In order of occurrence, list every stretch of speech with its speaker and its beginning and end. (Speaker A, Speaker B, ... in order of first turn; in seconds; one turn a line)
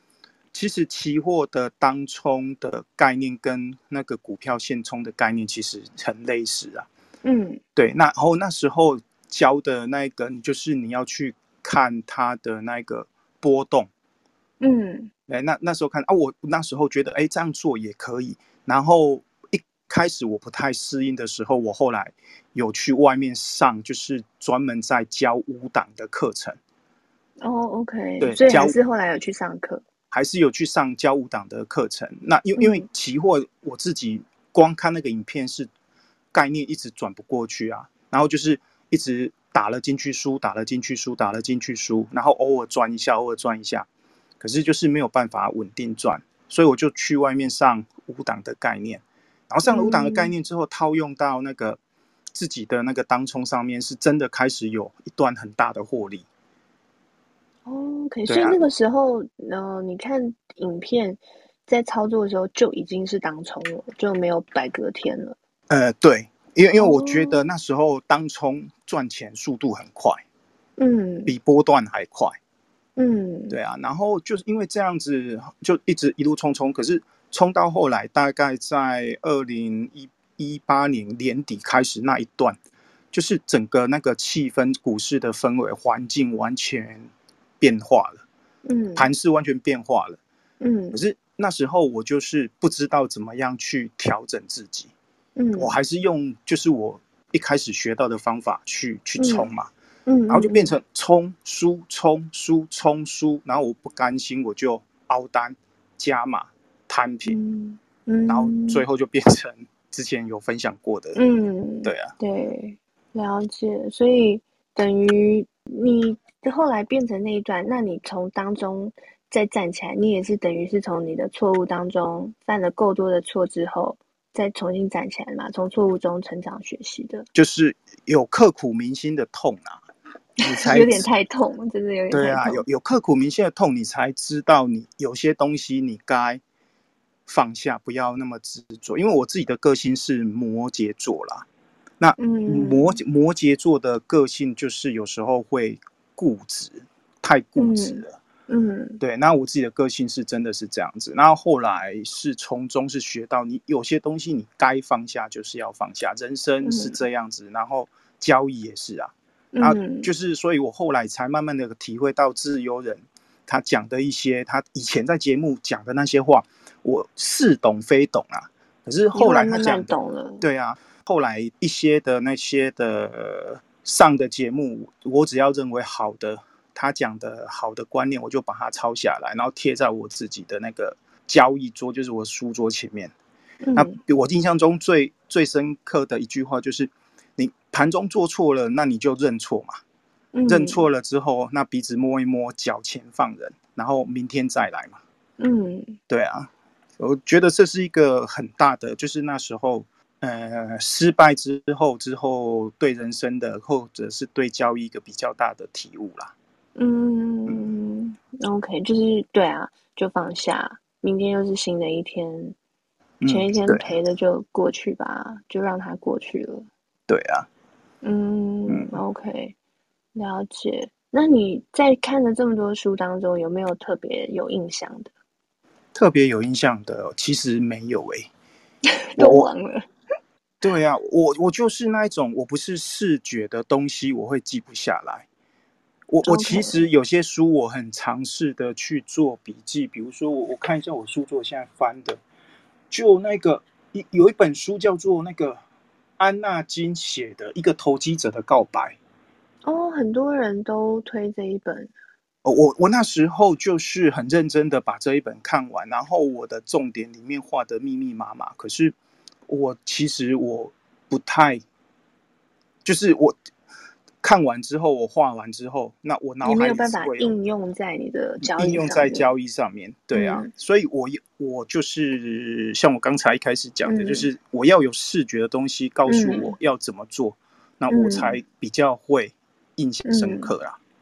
Speaker A: 0.5-6.9
Speaker B: 7.2-7.6
Speaker A: 7.8-13.9
Speaker B: 14.6-15.1
Speaker A: 15.3-26.6
Speaker B: 27.4-29.8
Speaker A: 28.2-28.8
Speaker A: 30.1-35.7
Speaker B: 32.6-32.9
Speaker A: 36.3-43.9
Speaker A: 44.4-51.8
Speaker B: 49.7-50.3
Speaker A: 52.3-56.3
Speaker B: 57.7-65.4
Speaker A: 58.3-58.6
Speaker A: 65.7-70.2
Speaker B: 66.8-67.5
Speaker B: 70.8-71.3
Speaker A: 71.3-72.4
Speaker B: 73.0-73.6
Speaker A: 73.5-82.6
Speaker A: 83.1-87.1
Speaker A: 87.6-88.2
Speaker B: 88.7-89.1
Speaker A: 89.0-90.2
Speaker B: 90.6-91.0
Speaker A: 90.9-94.9
Speaker B: 95.4-95.8
Speaker A: 95.6-99.7
Speaker B: 99.2-99.5
Speaker B: 100.1-100.7
Speaker A: 100.3-107.4
Speaker B: 107.2-108.8
Speaker A: 108.3-111.2
Speaker B: 111.2-127.3
Speaker A: 111.8-112.1
Speaker A: 127.3-129.8
Speaker A: 130.4-131.1
Speaker B: 130.4-132.6
Speaker A: 132.1-136.4
Speaker A: 137.3-141.5
Speaker A: 142.0-148.2
Speaker B: 142.2-143.0
Speaker B: 147.6-149.0
Speaker A: 149.0-183.1
Speaker B: 156.6-157.0
Speaker B: 159.5-160.1
Speaker B: 169.1-170.4
Speaker B: 183.6-184.0
Speaker A: 183.8-189.8
Speaker B: 190.3-190.8
Speaker A: 190.5-195.0
Speaker B: 195.4-196.0
Speaker A: 196.1-206.3
Speaker B: 206.8-212.6
Speaker A: 213.2-213.8
Speaker B: 213.3-216.7
Speaker A: 217.1-217.5
Speaker B: 218.0-219.6
Speaker A: 218.7-219.0
Speaker B: 220.2-225.1
Speaker A: 225.9-228.3
Speaker B: 229.0-229.9
Speaker A: 229.2-229.5
Speaker A: 230.6-235.3
Speaker A: 236.1-242.2
Speaker B: 236.2-236.8
Speaker A: 242.9-245.6
Speaker A: 246.2-249.0
Speaker B: 249.6-251.9
Speaker A: 252.4-259.0
Speaker A: 259.5-261.6
Speaker A: 262.8-263.4
Speaker A: 264.2-267.3
Speaker B: 266.4-269.3
Speaker A: 268.4-280.8
Speaker B: 270.1-270.5
Speaker B: 273.9-274.3
Speaker B: 276.1-276.5
Speaker B: 277.9-278.4
Speaker B: 280.1-280.5